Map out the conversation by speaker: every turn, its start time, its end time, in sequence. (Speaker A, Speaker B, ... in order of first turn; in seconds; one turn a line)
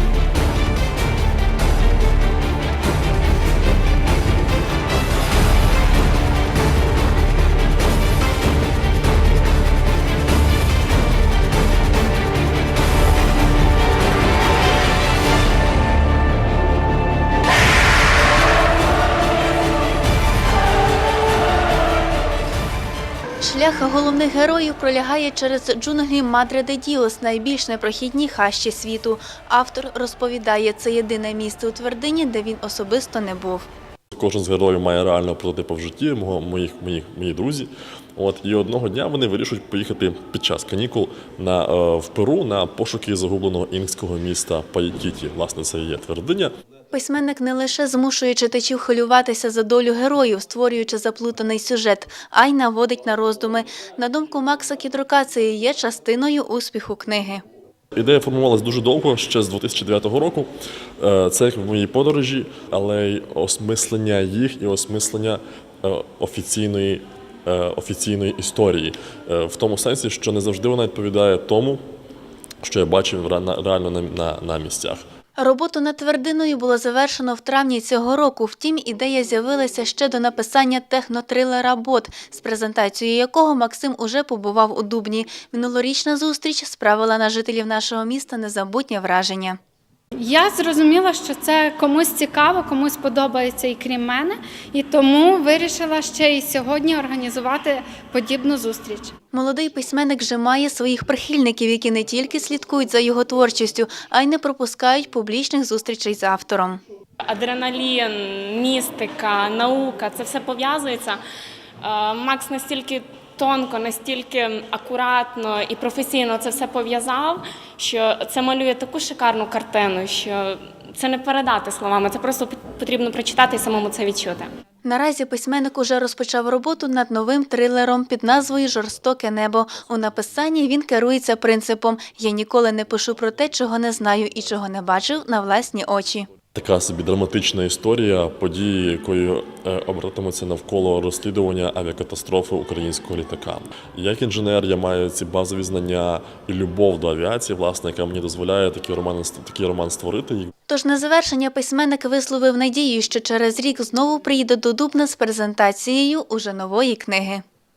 Speaker A: 23.4-33.6
Speaker B: 34.1-46.5
Speaker A: 46.9-57.4
Speaker B: 58.0-71.8
Speaker B: 72.6-75.0
Speaker A: 75.4-89.6
Speaker C: 90.2-99.1
Speaker A: 99.3-106.8
Speaker D: 107.3-111.2
Speaker D: 111.8-124.5
Speaker A: 124.8-136.3
Speaker B: 136.5-150.5
Speaker A: 150.7-157.4